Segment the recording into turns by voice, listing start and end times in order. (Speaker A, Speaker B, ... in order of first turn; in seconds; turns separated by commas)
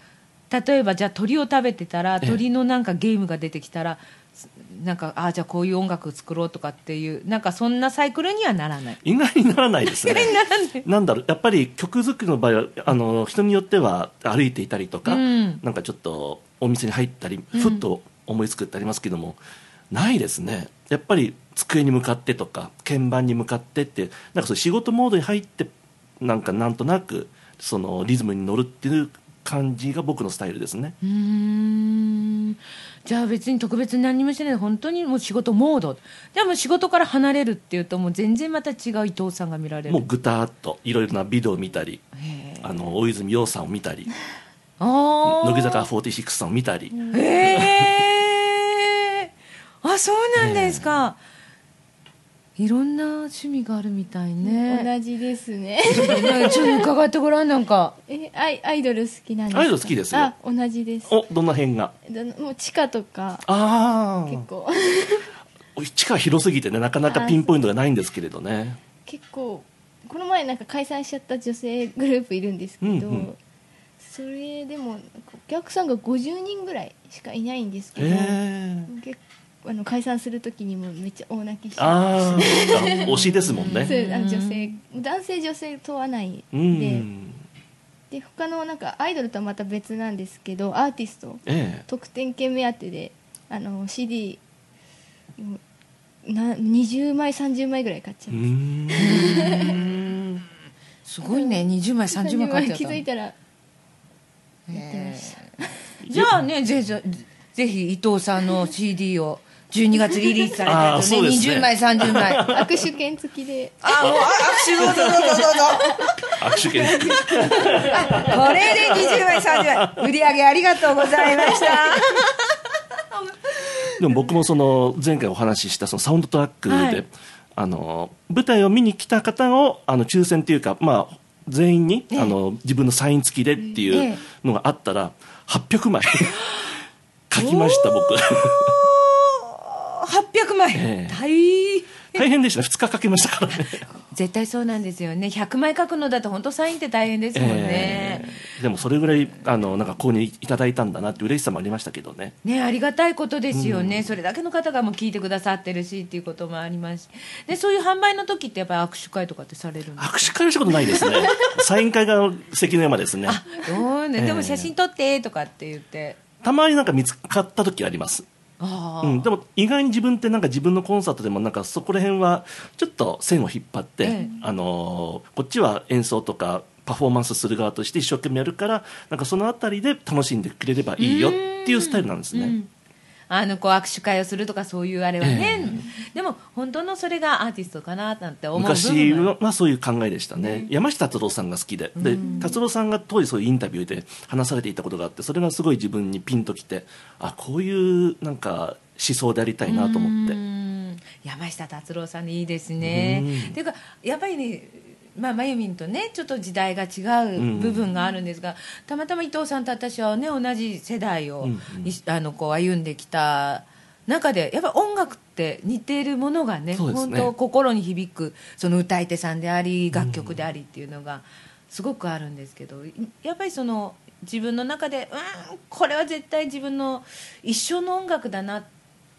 Speaker A: 0.5-9.0, Speaker B: 9.0-19.4, Speaker A: 9.9-10.8, Speaker A: 15.1-15.6, Speaker A: 17.5-17.8, Speaker B: 19.9-30.9, Speaker A: 31.0-40.0, Speaker B: 39.9-42.0, Speaker A: 42.1-42.8, Speaker B: 42.6-44.1, Speaker A: 44.8-45.9, Speaker B: 45.2-47.9, Speaker C: 46.9-47.3, Speaker A: 47.1-49.3, Speaker A: 49.8-51.2, Speaker B: 50.4-51.0, Speaker A: 52.6-54.9, Speaker C: 54.4-56.9, Speaker A: 56.0-58.0, Speaker C: 58.1-61.2, Speaker B: 59.5-60.3, Speaker B: 61.1-61.9, Speaker C: 62.1-63.5, Speaker B: 63.5-64.5, Speaker C: 64.3-65.3, Speaker B: 65.8-68.8, Speaker C: 67.1-67.5, Speaker C: 69.1-73.4, Speaker B: 72.8-73.3, Speaker C: 74.0-87.1, Speaker B: 78.0-78.9, Speaker B: 81.8-83.9, Speaker A: 83.5-84.7, Speaker B: 86.5-87.4, Speaker C: 88.1-94.4, Speaker B: 91.5-91.9, Speaker C: 96.2-99.8, Speaker B: 98.3-99.9, Speaker A: 99.0-100.4, Speaker A: 101.1-103.0, Speaker C: 101.3-103.3, Speaker A: 104.7-105.4, Speaker C: 104.7-105.7, Speaker B: 106.0-106.4, Speaker A: 106.1-112.5, Speaker B: 110.7-112.8, Speaker C: 112.4-114.0, Speaker A: 113.8-116.2, Speaker B: 114.0-115.7, Speaker B: 116.4-120.0, Speaker C: 117.0-117.8, Speaker A: 117.7-122.6, Speaker B: 121.2-121.5, Speaker A: 123.1-124.3, Speaker B: 124.0-136.4, Speaker A: 126.7-127.0, Speaker A: 133.9-134.2, Speaker B: 137.3-138.7, Speaker A: 137.4-142.3, Speaker B: 140.7-141.2, Speaker B: 142.1-143.9, Speaker A: 144.1-148.3, Speaker B: 147.3-152.3, Speaker A: 152.4-160.3, Speaker B: 153.5-154.2, Speaker B: 160.0-163.4, Speaker A: 163.3-166.2, Speaker B: 164.2-164.7, Speaker B: 166.4-168.3, Speaker A: 168.6-169.3, Speaker B: 169.0-182.6, Speaker A: 174.0-174.3, Speaker A: 181.0-182.7, Speaker A: 183.3-189.3, Speaker B: 185.2-185.9, Speaker B: 188.6-200.4, Speaker A: 190.4-190.7, Speaker A: 192.0-192.5, Speaker C: 192.2-192.5, Speaker A: 199.7-228.7, Speaker B: 202.8-203.6, Speaker B: 207.4-207.9, Speaker B: 211.4-211.9, Speaker B: 216.7-217.3, Speaker B: 219.9-220.4